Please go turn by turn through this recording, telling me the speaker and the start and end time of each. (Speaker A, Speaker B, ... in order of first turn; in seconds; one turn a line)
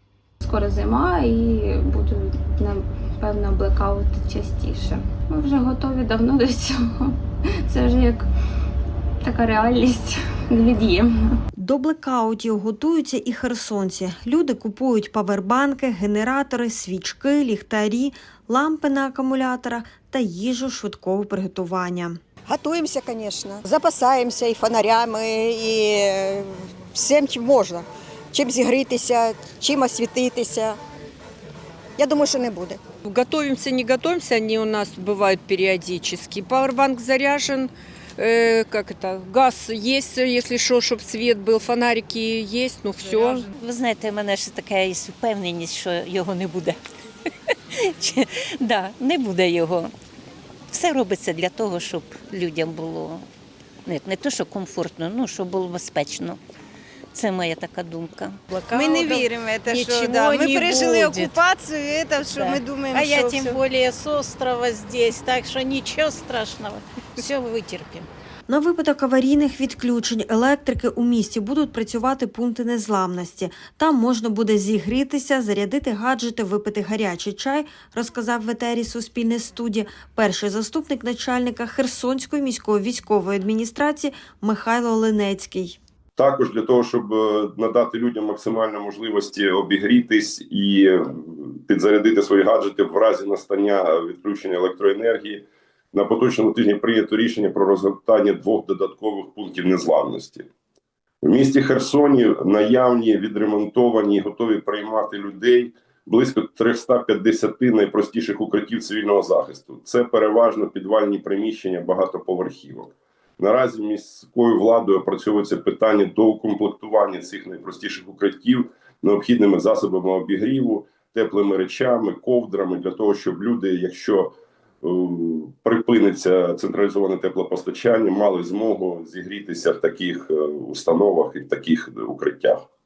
Speaker A: 0.4-8.3
Speaker A: 9.2-11.4
Speaker B: 11.6-22.2
Speaker C: 22.5-30.8
Speaker C: 32.0-32.8
Speaker D: 33.0-43.5
Speaker E: 43.5-46.8
Speaker E: 47.9-49.9
Speaker E: 50.7-53.3
Speaker E: 53.9-56.4
Speaker E: 57.1-58.4
Speaker F: 58.5-61.4
Speaker G: 58.7-63.5
Speaker F: 62.3-68.1
Speaker B: 68.5-85.8
Speaker H: 86.2-100.5
Speaker H: 101.2-132.6